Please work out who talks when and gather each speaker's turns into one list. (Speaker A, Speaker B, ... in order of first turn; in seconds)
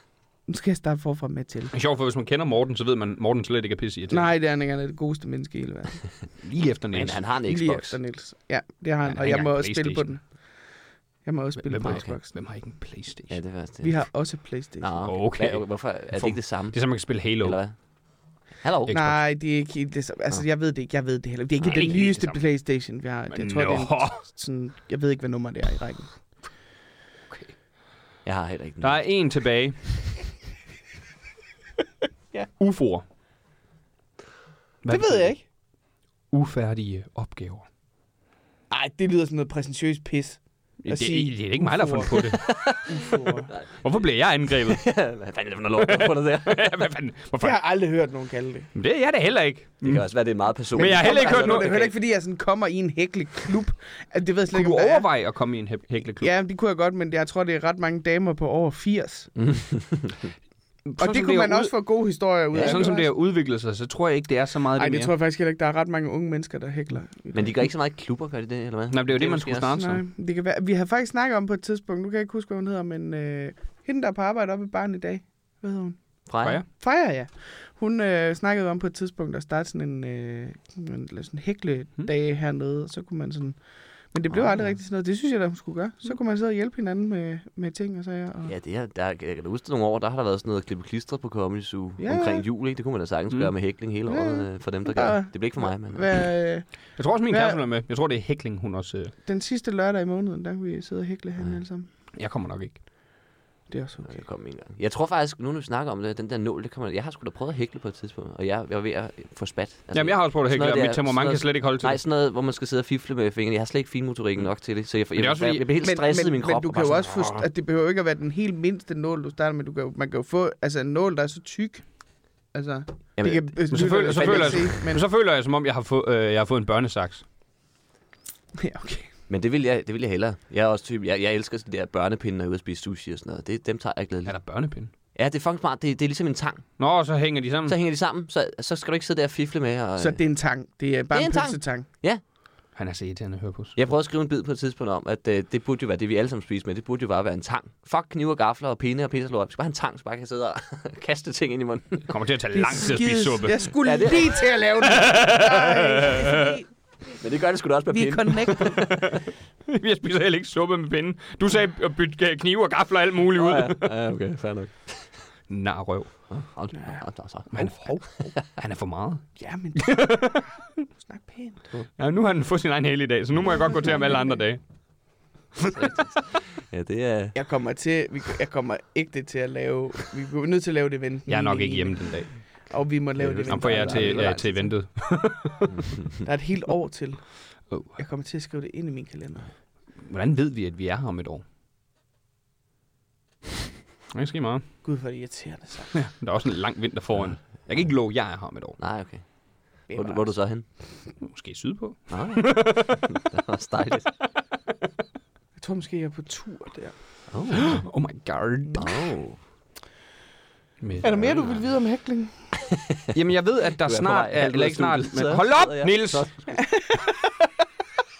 Speaker A: 0.5-1.7, 4.1-6.0, 7.4-10.6, 11.2-12.3, 13.8-15.0, 18.9-26.1, 34.9-35.4, 38.7-43.5, 47.4-48.7, 50.8-55.1, 56.2-59.3, 60.9-63.1, 64.8-67.7, 69.8-83.6, 84.1-88.5, 92.0-92.4, 94.1-97.6, 99.2-101.9, 103.7-104.2, 115.8-121.9, 122.5-125.0, 128.6-129.1, 140.0-141.8, 152.5-156.6, 157.9-158.9, 169.4-170.4, 170.9-171.6, 173.5-174.4, 177.3-184.7, 186.2-189.5, 194.8-195.9, 199.9-200.3, 205.6-206.9, 211.0-212.3, 216.6-217.3
Speaker B: 1.7-4.3, 6.4-7.2, 9.1-10.1, 11.6-13.4, 15.1-17.6, 18.9-19.2, 21.7-22.4, 23.3-24.2, 28.8-29.9, 32.6-33.0, 34.8-35.4, 36.3-37.6, 40.8-42.5, 43.8-45.0, 45.8-47.6, 48.7-51.7, 54.5-56.3, 61.0-61.7, 62.5-65.1, 68.9-70.0, 97.0-99.1, 102.1-102.8, 109.9-112.0, 115.2-115.7, 123.7-127.2, 134.2-134.9, 136.8-137.8, 142.7-143.8, 152.1-153.7, 154.8-156.5, 158.9-163.9, 165.5-166.4, 167.5-170.5, 172.0-174.6, 181.3-182.7, 183.5-185.7, 190.0-191.4, 194.1-194.6, 195.9-198.8, 201.2-203.1, 207.5-209.0, 210.8-211.4, 213.1-216.3
Speaker C: 6.9-8.0, 11.8-12.1, 13.3-14.1, 14.8-17.8, 18.5-19.0, 21.6-22.1, 28.2-29.0, 42.1-43.9, 44.5-46.8, 49.8-51.9, 59.4-60.3, 62.5-62.8, 67.3-69.7, 76.2-76.6, 84.3-84.8, 88.5-96.1, 104.0-117.5, 123.2-124.7, 129.3-134.4, 135.1-136.7, 137.7-140.2, 141.1-142.2, 143.8-152.2, 153.8-154.4, 157.2-159.0, 163.3-165.1, 166.3-168.0, 175.7-177.4, 183.2-184.7, 185.7-186.1, 198.8-200.6, 202.1-204.1, 207.3-207.8, 208.8-209.4, 211.0-211.6, 213.8-216.3